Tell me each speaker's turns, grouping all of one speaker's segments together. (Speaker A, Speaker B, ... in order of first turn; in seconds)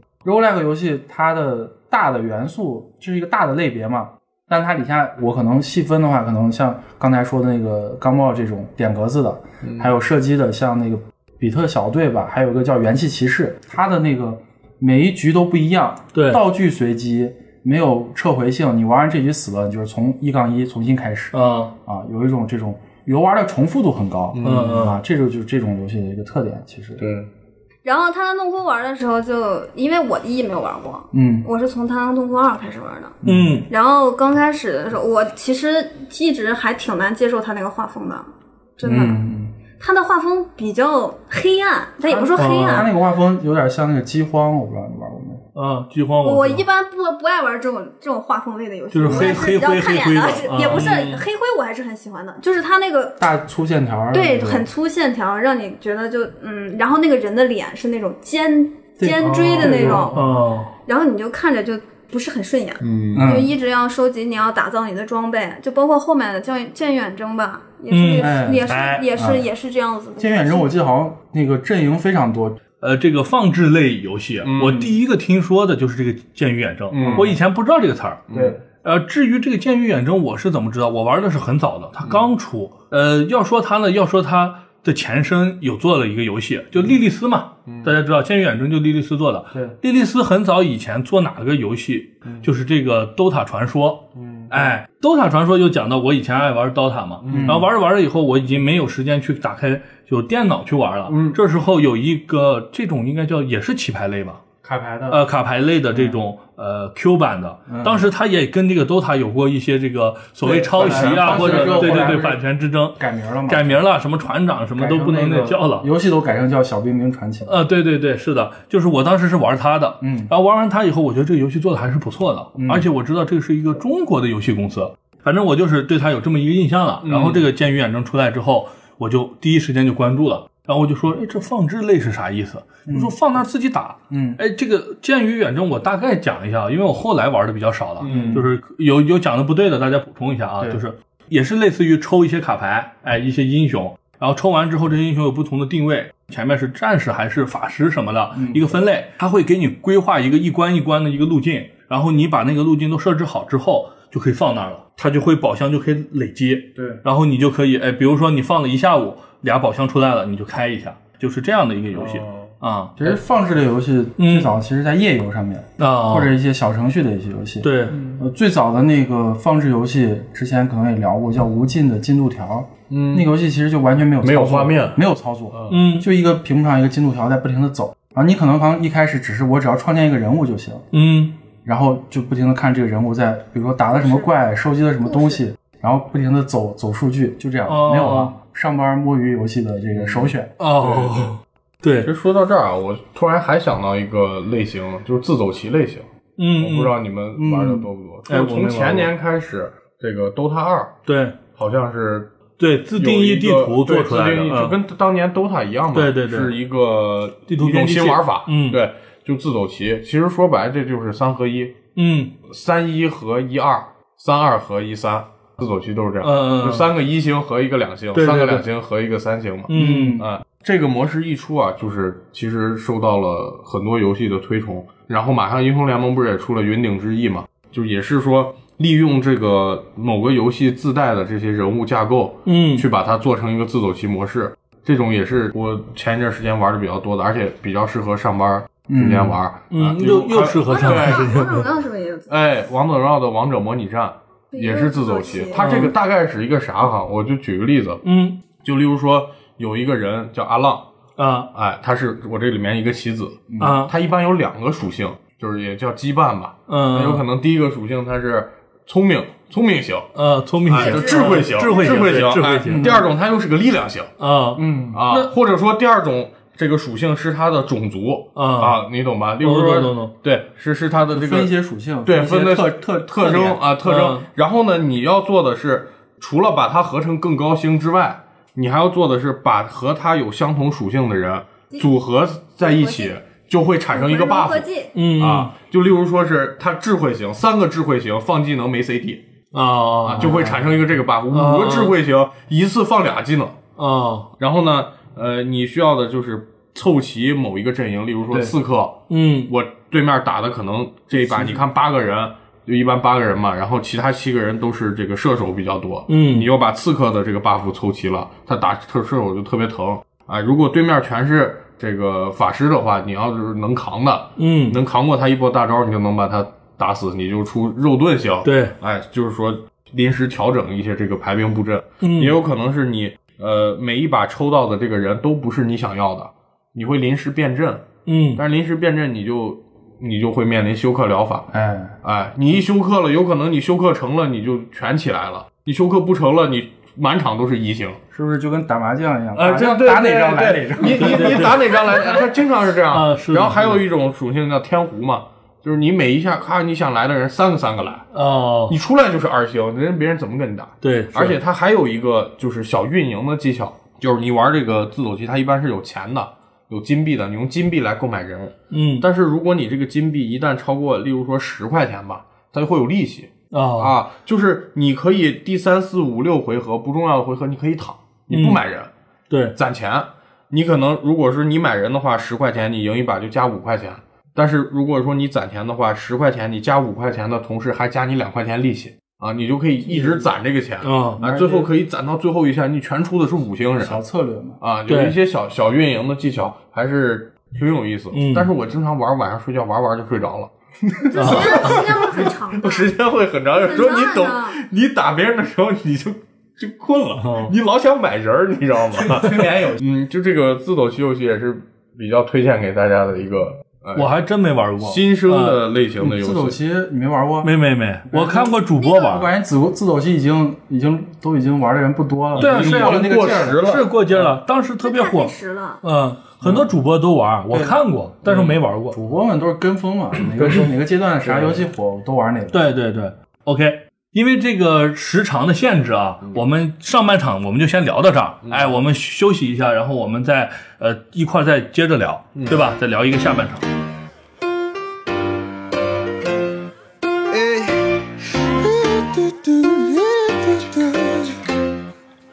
Speaker A: 0.2-27.1, 31.1-31.5, 33.2-33.6, 38.8-39.5, 42.1-45.4, 49.0-49.4, 53.2-54.7, 59.0-60.2, 63.1-63.5, 68.2-69.5, 70.2-72.6, 76.9-77.4, 78.3-78.6, 97.3-97.7, 104.6-105.2, 105.9-106.2, 107.7-108.1, 110.4-112.4, 113.0-113.8, 114.8-117.5, 120.0-120.3, 122.5-122.9, 132.9-133.1, 134.1-134.4, 138.0-138.5, 148.3-148.7, 163.0-180.9, 181.6-190.6, 197.3-197.9, 219.7-220.2, 238.9-239.4, 253.5-253.8, 260.8-261.6, 262.6-263.1, 264.6-265.0, 271.1-273.6, 290.2-290.8, 301.1-301.6, 331.5-332.0, 338.1-342.2, 379.8-380.3, 381.2-381.7, 383.8-384.6, 399.1-399.8, 406.0-407.5, 408.1-413.8, 416.4-416.7, 417.5-422.6
Speaker B: 9.6-9.9, 24.3-24.8, 27.0-27.3, 59.8-60.0, 62.8-63.4, 74.4-74.9, 76.9-77.3, 78.3-78.6, 87.7-87.9, 94.1-94.6, 97.2-97.7, 101.1-101.4, 110.8-112.1, 127.0-127.4, 138.0-138.4, 161.9-162.5, 172.9-173.3, 174.2-175.0, 175.5-175.8, 189.9-191.3, 192.0-196.1, 196.6-201.0, 201.5-202.3, 202.9-211.8, 212.4-241.5, 242.3-248.0, 248.6-250.8, 251.5-260.1, 260.7-264.1, 264.9-271.5, 272.1-289.2, 290.0-293.6, 294.4-331.5, 332.0-338.0, 339.3-348.1, 348.7-368.9, 369.5-384.0, 384.6-404.1, 404.8-406.6, 412.4-414.3, 420.2-421.7, 428.4-428.7, 432.3-432.6
Speaker C: 16.1-16.4, 21.3-21.7, 24.4-25.0, 33.2-33.7, 42.4-42.9, 45.5-46.6, 48.9-51.2, 59.2-60.7, 67.9-69.0, 72.8-78.2, 78.8-104.4, 105.1-115.9, 117.5-163.0, 164.2-164.5, 165.8-166.3, 167.6-168.0, 175.7-176.1, 180.9-181.4, 187.7-188.3, 190.6-192.1, 196.4-196.9, 198.3-199.1, 201.1-201.4, 202.6-204.8, 205.9-206.6, 207.5-208.8, 211.9-212.3, 216.2-216.9, 218.1-218.7, 219.7-220.2, 232.4-232.8, 239.7-241.7, 245.6-245.9, 248.0-248.4, 251.2-251.5, 253.6-253.9, 256.7-257.2, 260.1-262.9, 264.2-265.3, 268.3-268.8, 269.4-270.1, 273.8-274.3, 284.9-285.5, 289.5-290.4, 291.3-291.9, 293.8-294.3, 299.1-299.5, 306.1-306.5, 314.4-314.8, 318.4-318.7, 322.0-322.4, 328.1-328.4, 340.9-341.6, 342.9-343.9, 348.1-348.8, 350.8-351.4, 358.7-359.1, 363.5-364.0, 368.3-368.6, 369.3-369.6, 380.8-381.2, 384.9-385.2, 388.1-388.5, 391.1-391.7, 397.2-397.6, 399.0-399.4, 403.9-405.6, 407.4-409.3, 412.3-419.0, 422.5-433.6
Speaker D: 27.8-33.2, 33.7-38.3, 38.8-39.2, 39.8-42.9, 46.2-53.2, 54.1-60.3, 60.8-70.7, 183.9-184.3, 185.0-185.4, 240.7-242.3, 244.5-245.8, 261.6-262.0, 282.6-283.1, 283.9-284.9, 390.9-392.9, 393.5-394.6, 408.8-409.2, 414.8-415.8
Speaker E: 437.3-441.5